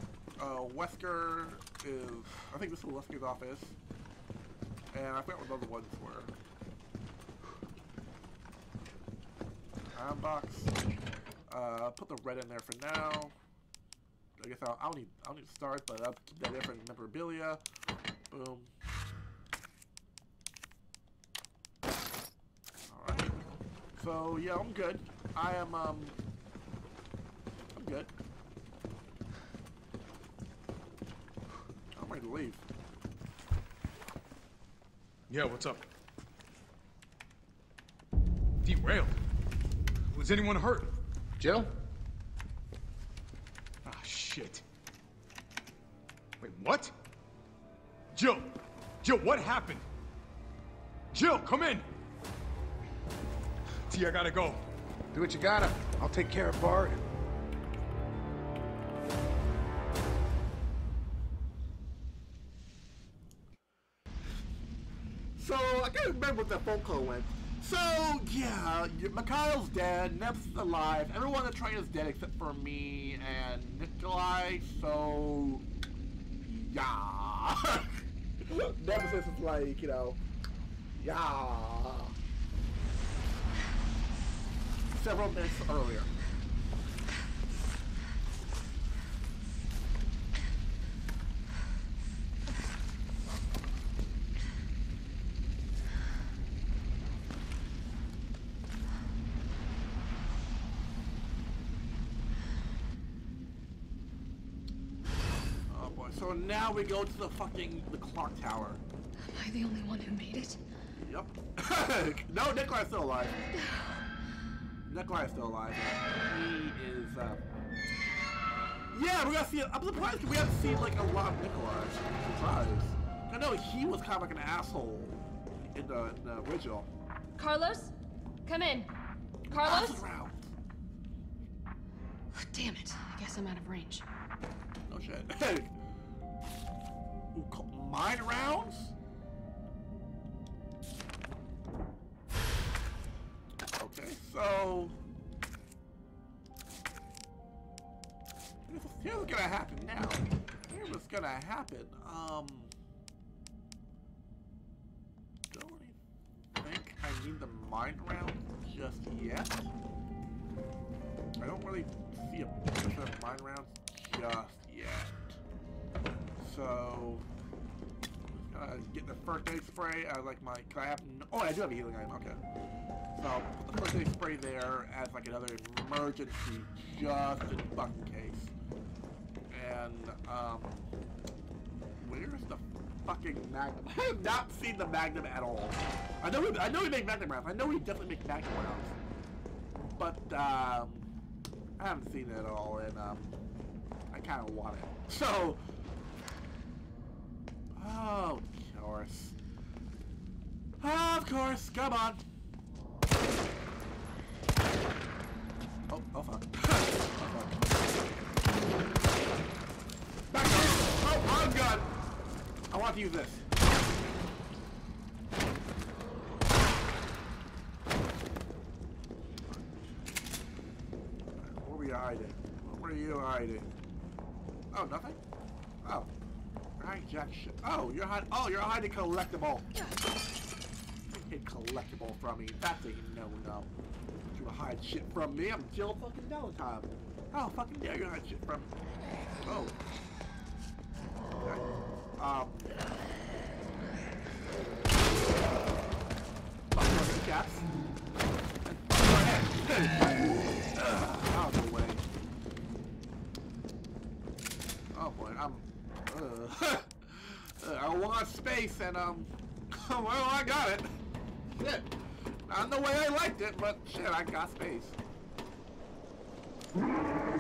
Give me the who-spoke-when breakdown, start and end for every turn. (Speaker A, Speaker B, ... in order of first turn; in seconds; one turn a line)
Speaker A: 0.4-3.8
Speaker A: 4.9-6.3
Speaker A: 9.9-10.7
Speaker A: 11.5-13.3
Speaker A: 14.4-17.6
Speaker A: 18.3-18.7
Speaker A: 22.9-23.4
Speaker A: 24.0-26.2
Speaker A: 27.8-28.1
Speaker A: 31.9-32.6
Speaker B: 35.3-35.8
Speaker B: 38.6-39.1
Speaker B: 40.1-41.0
Speaker C: 41.4-41.7
Speaker B: 43.9-44.6
Speaker B: 46.4-46.9
Speaker B: 48.1-49.8
Speaker B: 51.1-51.9
Speaker B: 53.9-54.6
Speaker C: 55.1-57.0
Speaker A: 65.4-75.7
Speaker A: 76.4-80.2
Speaker A: 81.0-82.2
Speaker A: 84.9-86.1
Speaker A: 105.7-108.8
Speaker D: 109.3-110.6
Speaker A: 111.0-113.4
Speaker D: 113.5-114.0
Speaker A: 114.9-117.4
Speaker A: 118.9-126.9
Speaker D: 127.4-127.9
Speaker D: 128.4-128.9
Speaker A: 129.5-130.5
Speaker D: 129.5-130.0
Speaker D: 132.3-134.0
Speaker A: 134.9-135.7
Speaker A: 137.3-138.9
Speaker A: 143.8-145.0
Speaker A: 148.7-152.7
Speaker A: 155.5-156.0
Speaker A: 156.6-159.7
Speaker A: 161.4-165.4
Speaker A: 166.4-167.3
Speaker A: 168.3-172.4
Speaker A: 173.2-178.5
Speaker A: 179.5-180.9
Speaker A: 182.0-188.9
Speaker A: 189.9-191.1
Speaker A: 191.8-193.4
Speaker A: 194.1-195.6
Speaker A: 197.8-199.3
Speaker A: 200.8-202.2
Speaker A: 205.9-207.9
Speaker A: 210.3-211.9
Speaker A: 212.7-213.4
Speaker A: 219.5-219.8
Speaker A: 221.4-223.7
Speaker A: 224.7-225.2
Speaker A: 225.8-226.1
Speaker A: 226.8-229.7
Speaker A: 231.1-233.7
Speaker A: 234.3-238.7
Speaker A: 239.4-239.8
Speaker A: 241.4-242.8
Speaker A: 246.7-247.7
Speaker A: 248.7-252.1
Speaker A: 254.9-260.9
Speaker A: 261.5-261.9
Speaker A: 262.5-265.0